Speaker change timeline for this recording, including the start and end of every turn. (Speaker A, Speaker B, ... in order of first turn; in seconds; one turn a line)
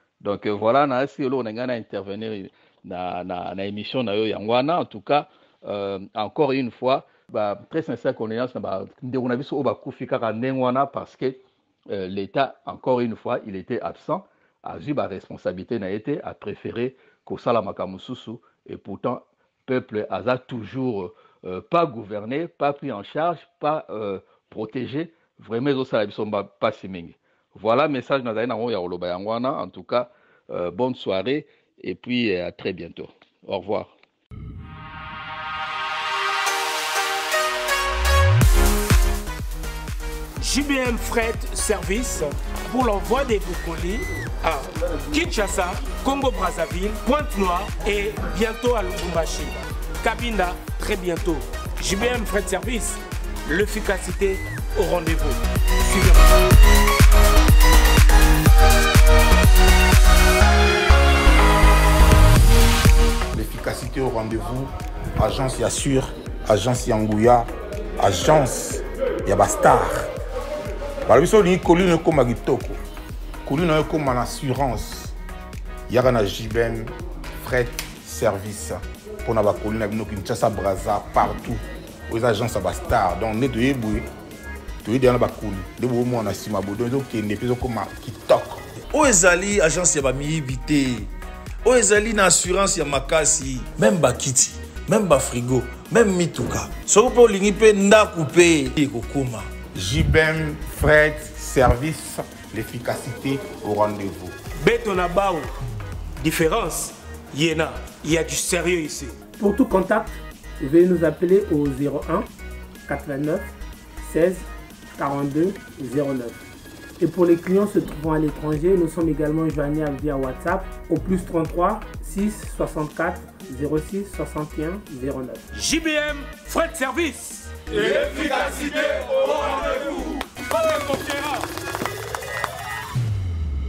Speaker A: 0.2-33.9
Speaker B: 40.4-56.2
Speaker C: 63.3-67.5
Speaker C: 68.0-70.1
Speaker C: 71.1-72.8
Speaker C: 73.4-75.1
Speaker C: 75.9-84.0
Speaker C: 84.8-88.6
Speaker D: 88.9-91.1
Speaker D: 91.6-99.5
Speaker C: 99.7-104.3
Speaker B: 104.6-105.5
Speaker B: 106.2-109.2
Speaker E: 109.4-112.3
Speaker E: 112.9-113.5
Speaker E: 114.0-114.5
Speaker E: 115.0-116.4
Speaker E: 117.0-125.5
Speaker B: 125.5-131.4